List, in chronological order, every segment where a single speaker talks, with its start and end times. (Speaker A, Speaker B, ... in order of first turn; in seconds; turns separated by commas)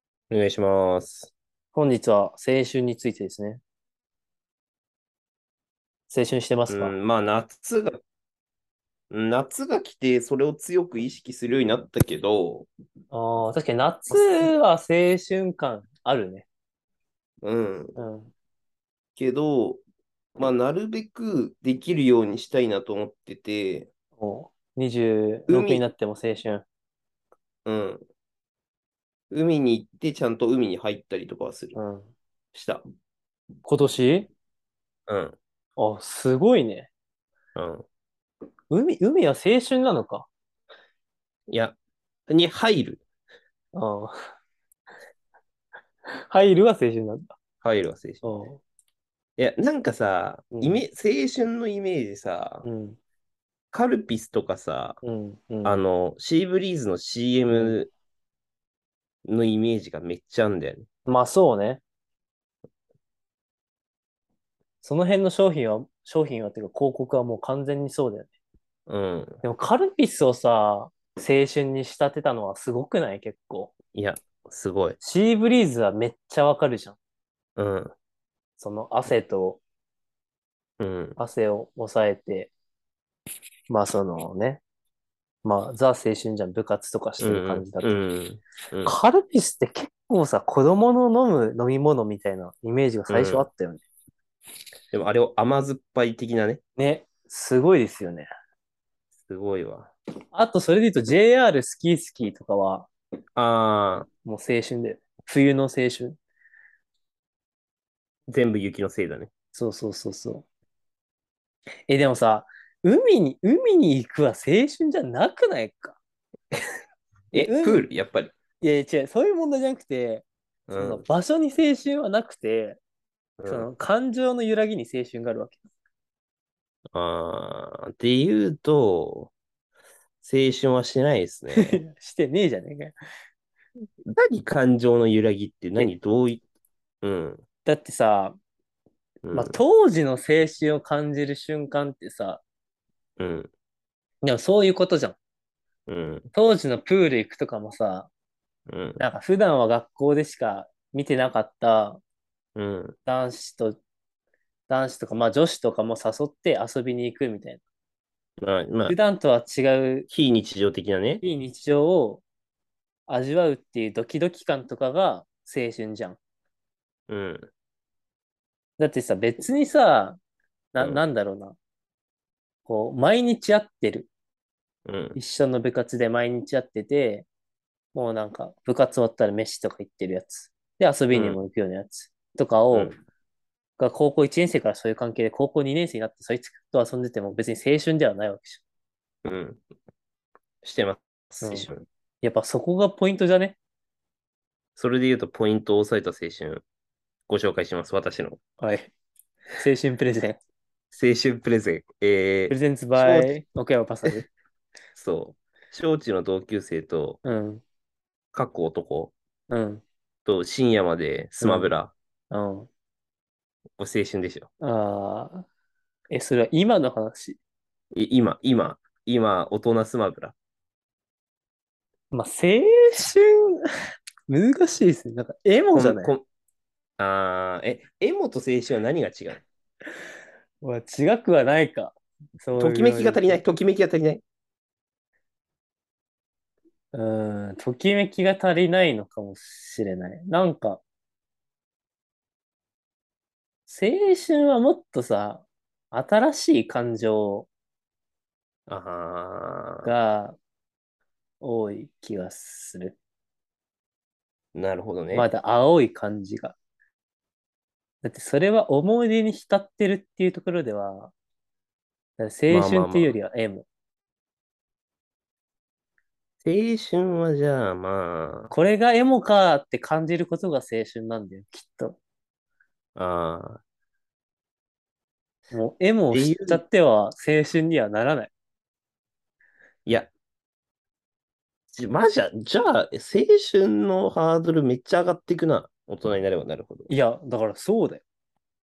Speaker A: 0.3-1.3, Speaker B: 1.7-3.6, Speaker B: 6.1-6.9, Speaker A: 6.7-8.0, Speaker A: 9.1-12.7, Speaker B: 13.1-16.5, Speaker A: 14.1-14.5, Speaker A: 17.4-18.0, Speaker B: 18.0-18.3, Speaker A: 19.1-19.8, Speaker A: 20.4-23.9, Speaker B: 24.2-26.6, Speaker A: 25.5-25.9, Speaker A: 27.6-28.0, Speaker A: 29.3-31.8, Speaker B: 31.7-32.1, Speaker A: 32.5-32.8, Speaker B: 33.6-34.3, Speaker A: 35.1-35.4, Speaker B: 35.8-36.9, Speaker A: 37.6-37.8, Speaker B: 38.7-40.3, Speaker A: 41.5-41.8, Speaker A: 42.3-43.0, Speaker B: 43.7-44.1, Speaker B: 46.1-47.3, Speaker A: 47.6-48.2, Speaker B: 48.2-48.6, Speaker A: 49.4-52.7, Speaker B: 50.5-50.8, Speaker B: 52.6-53.0, Speaker A: 53.7-55.0, Speaker B: 55.0-55.8, Speaker A: 55.6-57.9, Speaker B: 57.5-57.8, Speaker A: 59.3-60.9, Speaker B: 61.0-61.8, Speaker B: 64.8-68.3, Speaker A: 68.9-69.4, Speaker B: 69.4-73.7, Speaker A: 73.9-75.0, Speaker B: 75.0-77.0, Speaker A: 77.6-77.9, Speaker B: 78.6-79.6, Speaker A: 80.8-81.2, Speaker B: 81.2-82.5, Speaker B: 83.7-84.6, Speaker B: 85.4-88.0, Speaker A: 87.2-89.0, Speaker B: 88.9-93.8, Speaker A: 93.1-93.5, Speaker A: 94.9-96.6, Speaker B: 96.8-98.3, Speaker A: 99.2-99.9, Speaker B: 100.3-102.9, Speaker A: 103.4-104.1, Speaker B: 104.2-106.2, Speaker A: 108.3-109.3, Speaker B: 109.5-110.5, Speaker B: 111.9-116.0, Speaker A: 117.3-118.3, Speaker B: 117.3-117.9, Speaker B: 118.6-122.8, Speaker A: 120.7-121.0, Speaker A: 123.4-123.7, Speaker B: 123.5-125.6, Speaker A: 126.9-129.3, Speaker A: 130.2-131.8, Speaker B: 131.5-133.0, Speaker A: 134.1-136.4, Speaker A: 137.0-137.4, Speaker B: 137.7-138.4, Speaker A: 139.2-139.6, Speaker B: 139.3-142.4, Speaker A: 143.2-143.5, Speaker B: 144.2-145.2, Speaker A: 145.9-146.3, Speaker B: 146.3-148.1, Speaker A: 148.7-149.0, Speaker B: 149.0-152.0, Speaker A: 152.6-153.0, Speaker B: 153.1-153.8, Speaker B: 154.7-157.6, Speaker A: 158.4-159.0, Speaker B: 158.9-160.1, Speaker A: 160.1-161.2, Speaker B: 161.2-162.2, Speaker B: 163.1-166.2, Speaker A: 167.1-167.5, Speaker B: 168.8-170.2, Speaker B: 170.7-171.6, Speaker A: 170.8-171.0, Speaker B: 172.7-174.1, Speaker A: 174.9-175.2, Speaker B: 175.2-177.3, Speaker B: 177.9-183.0, Speaker A: 181.1-181.4, Speaker B: 183.8-188.6, Speaker A: 189.2-189.6, Speaker A: 190.6-191.8, Speaker B: 191.4-191.7, Speaker B: 192.2-193.6, Speaker A: 194.8-196.6, Speaker A: 197.3-198.4, Speaker B: 198.6-198.9, Speaker B: 199.6-200.4, Speaker A: 200.9-203.3, Speaker B: 202.5-204.3, Speaker A: 204.9-207.2, Speaker B: 207.2-207.6, Speaker A: 208.3-209.1, Speaker B: 209.5-209.8, Speaker A: 210.3-211.9, Speaker B: 211.4-211.7, Speaker B: 212.3-212.7, Speaker A: 213.8-214.5, Speaker B: 214.6-215.4, Speaker B: 216.1-217.4, Speaker A: 217.9-220.3, Speaker B: 222.1-223.7, Speaker B: 224.3-226.2, Speaker A: 225.8-226.2, Speaker A: 227.0-229.4, Speaker B: 230.6-233.4, Speaker A: 232.6-234.2, Speaker B: 236.9-240.8, Speaker B: 243.7-247.5, Speaker A: 248.7-249.9, Speaker B: 249.8-250.4, Speaker B: 251.4-253.0, Speaker A: 254.6-255.3, Speaker B: 255.1-256.6, Speaker B: 258.0-261.1, Speaker B: 262.2-263.7, Speaker A: 262.5-263.2, Speaker A: 266.4-268.5, Speaker B: 268.5-272.0, Speaker A: 272.9-273.6, Speaker B: 275.5-278.3, Speaker A: 276.1-276.6, Speaker A: 281.7-286.9, Speaker B: 286.9-288.0